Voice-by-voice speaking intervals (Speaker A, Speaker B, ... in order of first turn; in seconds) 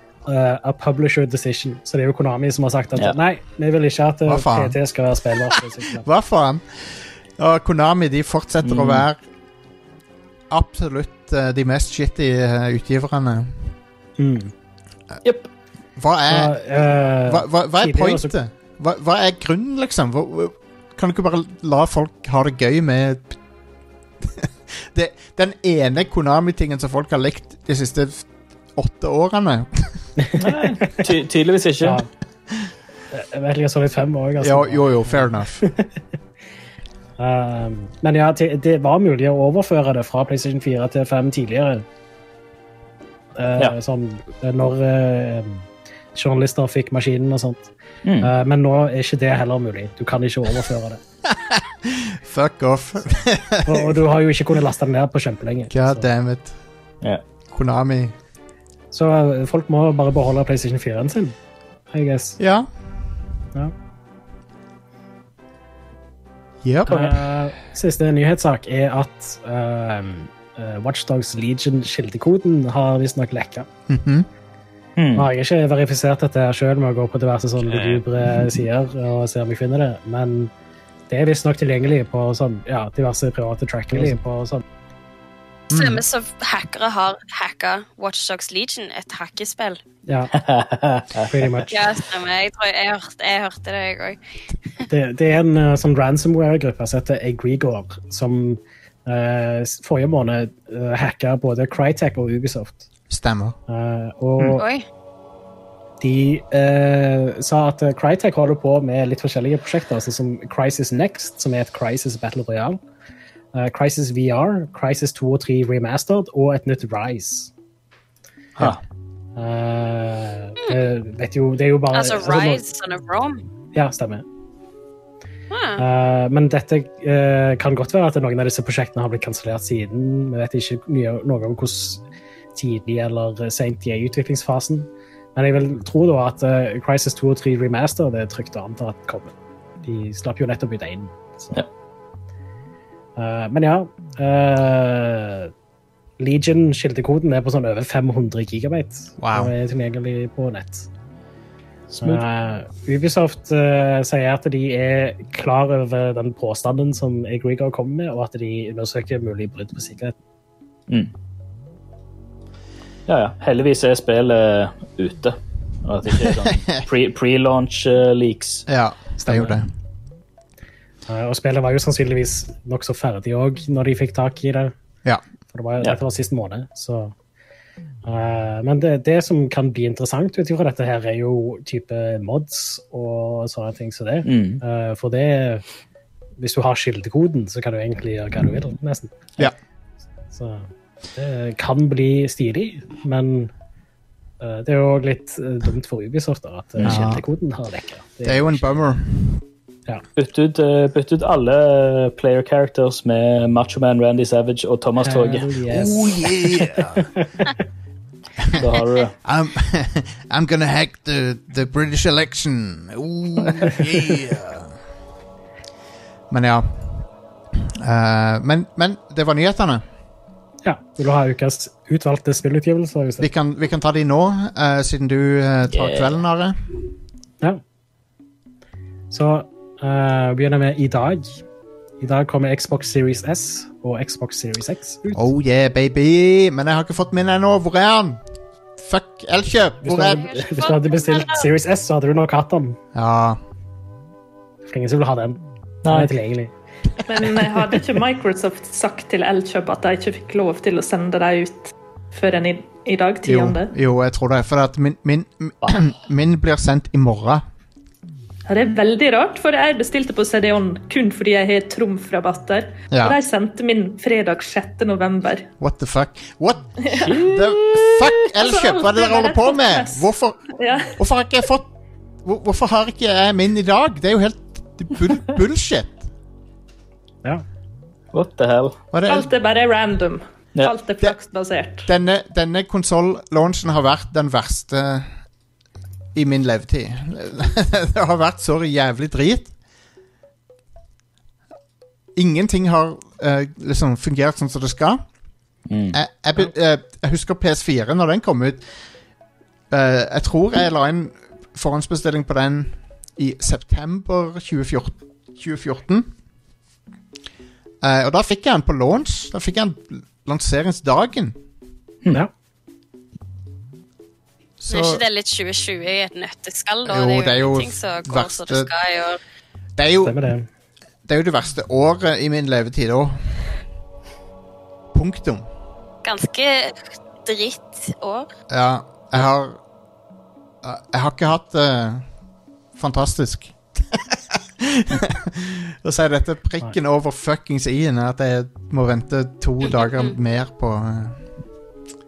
Speaker A: 0.2-6.1, 14.2-14.5, 16.3-18.3, 30.2-31.0, 31.8-32.1, 33.1-35.9, 37.2-41.8, 43.4-51.0, 53.6-56.0, 58.9-61.4, 61.9-62.4, 66.9-73.7, 75.1-80.5, 81.1-84.6, 90.1-90.3, 91.2-91.9, 94.9-102.8, 103.7-104.6, 106.0-112.8, 113.5-117.5, 119.3-122.6, 123.7-124.2, 125.8-132.0, 132.5-141.6, 143.2-145.5, 146.2-150.9, 152.0-160.1, 169.2-169.5, 171.1-174.7, 175.5-177.1, 178.0-185.6, 186.4-189.3, 190.3-193.5, 194.4-198.6, 205.0-207.5, 220.6-223.3, 229.1-231.4, 232.0-235.2, 239.8-242.8, 244.7-246.5, 320.0-320.5
Speaker B: 4.3-4.8, 6.0-9.2, 10.5-13.7, 16.0-16.6, 17.3-23.4, 24.2-30.0, 34.4-35.6, 51.2-54.0, 55.7-56.5, 57.5-58.1, 62.4-62.7, 66.6-67.2, 73.9-74.3, 85.7-86.0, 103.1-103.5, 149.2-149.5, 166.2-166.8, 168.7-169.7, 196.8-197.2, 198.2-199.4, 205.7-207.1, 208.4-208.7, 209.2-214.7, 216.3-217.0, 217.7-219.8, 223.2-226.7, 235.1-238.2, 238.8-240.2, 242.9-243.4, 253.2-257.4, 262.9-263.2, 265.6-270.4, 271.0-271.7, 272.2-276.0, 278.9-279.3, 281.9-285.1, 286.1-289.5, 292.1-295.1, 295.9-298.6, 299.7-306.1, 307.8-311.4, 314.6-315.0, 316.8-318.7, 319.8-320.2, 321.1-323.5, 324.9-325.4, 328.5-329.6, 330.6-332.0, 332.7-341.2
Speaker C: 8.6-9.0, 30.4-32.0, 48.0-48.3, 75.0-75.3, 90.3-91.3, 151.9-152.2, 163.1-168.7, 184.2-184.6, 200.2-205.5, 208.5-209.1, 225.7-226.2, 245.8-246.1, 267.0-268.3, 278.1-278.8, 295.7-296.0
Speaker D: 85.7-89.8, 91.7-94.2, 104.5-104.8, 121.9-123.4, 125.5-125.8, 240.1-241.5, 314.7-319.2, 326.0-328.3
Speaker E: 247.1-253.7, 258.5-265.5, 266.9-267.2, 268.3-270.1, 270.6-271.0, 279.1-281.9